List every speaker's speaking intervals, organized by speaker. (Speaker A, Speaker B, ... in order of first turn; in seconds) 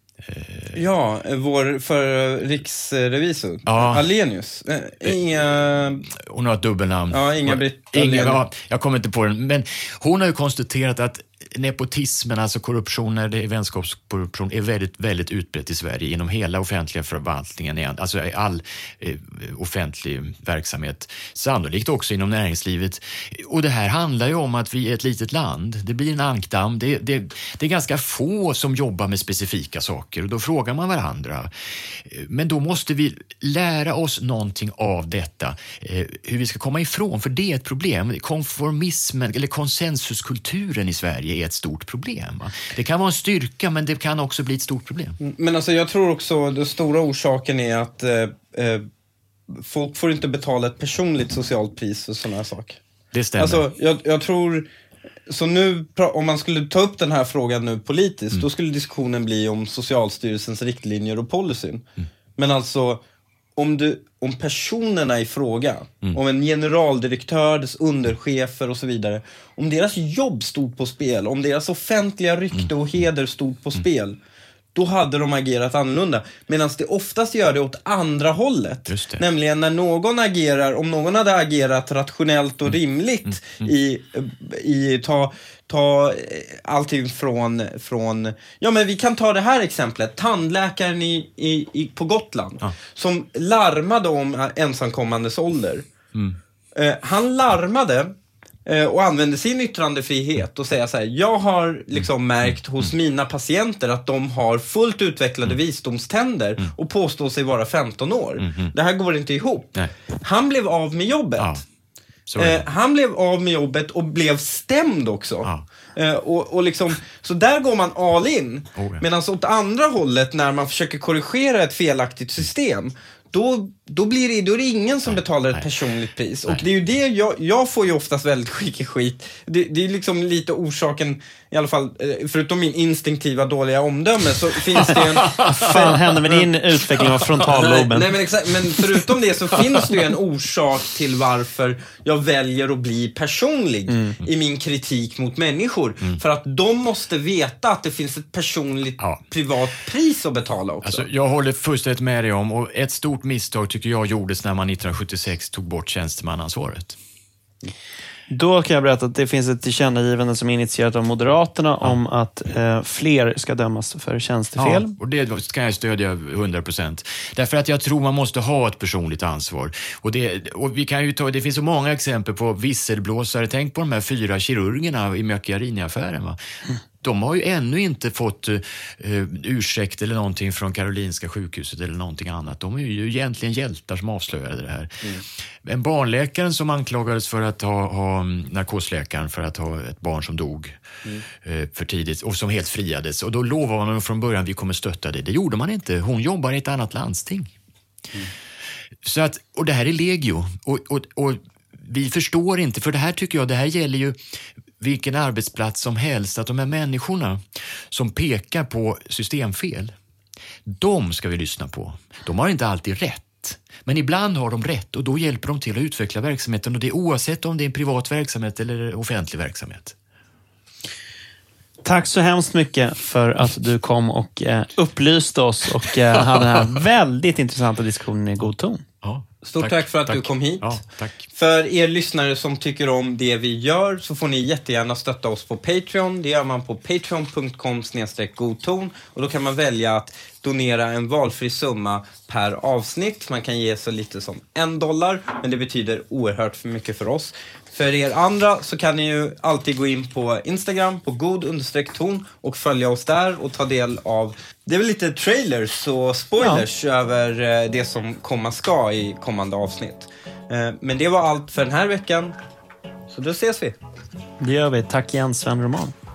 Speaker A: 0.2-0.8, 3.6-4.0, 6.1-45.2, 53.1-53.6, 78.9-79.2, 108.4-108.7, 111.4-111.6, 112.3-112.7, 118.7-119.0, 125.1-125.7, 150.8-157.0, 164.6-176.4, 177.0-185.0, 185.6-190.8, 191.4-197.5, 199.0-204.2, 204.8-209.9, 210.6-219.9, 229.0-231.3
Speaker B: 0.7-6.1, 7.1-8.4, 45.2-48.9, 49.5-52.8, 53.4-54.7, 55.3-61.8, 62.4-63.0, 63.5-74.2, 74.7-95.9, 96.7-98.1, 98.7-111.6, 112.4-136.5, 137.4-151.1, 229.4-230.8, 231.3-262.4, 263.1-263.8
Speaker C: 135.2-138.1, 143.9-144.2, 158.3-164.9, 221.8-228.8, 256.4-256.6, 264.4-265.9